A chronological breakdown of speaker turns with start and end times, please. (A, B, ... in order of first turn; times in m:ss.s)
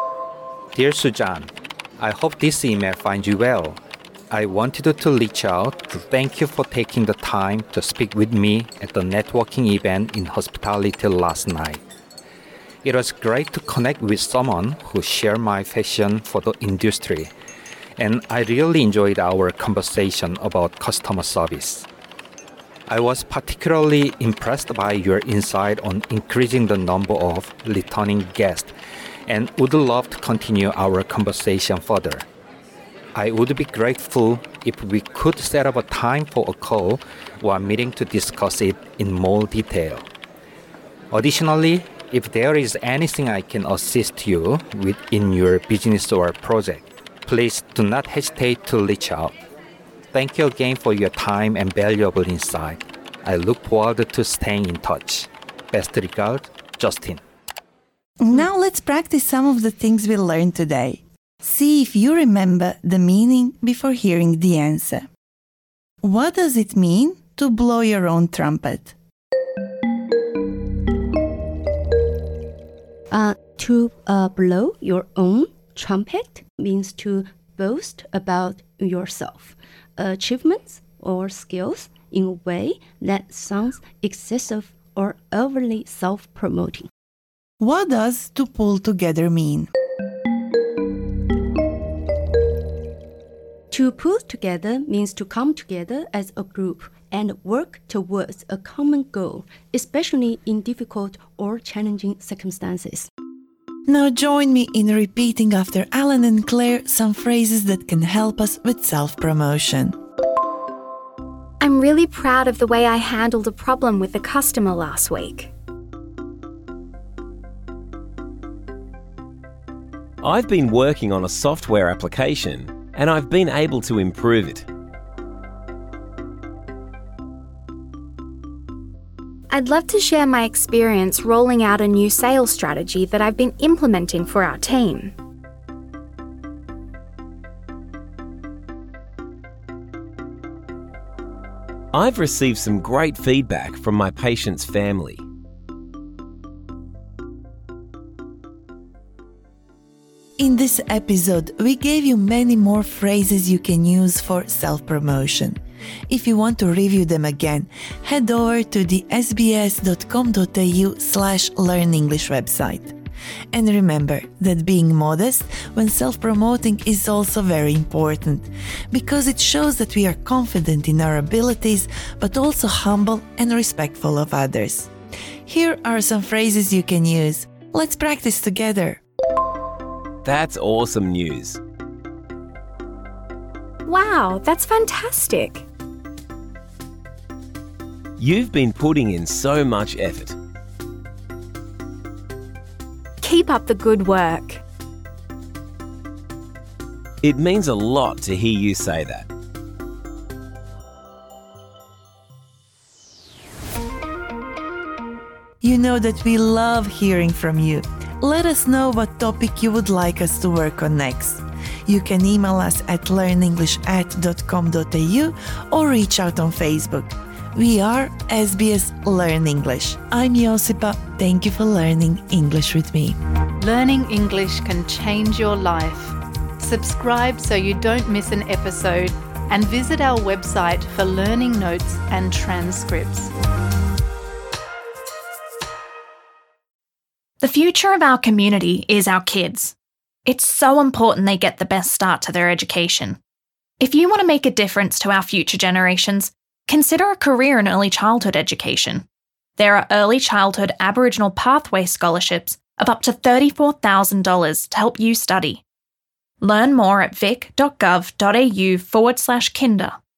0:00.8-0:03.8 A
0:04.3-0:11.8 A
0:12.8-0:17.3 A
0:18.0-0:21.9 A
0:22.9-0:28.7 A
0:29.3-0:32.3 A
0:33.2-0:40.0 A
0:41.1-0:49.3 A
0:50.1-0:57.2 A
0:58.2-1:05.1 B
1:06.0-1:09.0 B
1:13.1-1:26.9 C
1:27.6-1:29.7 B
1:33.7-1:43.1 C
1:43.9-1:50.0 B
1:51.6-1:55.5 D
2:00.2-2:04.7 E
2:09.5-2:15.1 D
2:21.9-2:25.2 E
2:30.4-2:35.6 B
2:36.1-2:43.0 B
2:43.5-2:54.9 B
2:55.5-2:59.0 B
3:00.2-3:01.6 E
3:03.9-3:05.6 D
3:08.2-3:10.4 E
3:13.2-3:14.6 D
3:17.2-3:19.3 E
3:25.6-3:43.2 B
3:43.6-3:53.3 F
3:57.4-3:59.7 G
4:00.3-4:03.2 G
4:03.8-4:09.0 G
4:09.6-4:15.6 G
4:16.4-4:20.0 G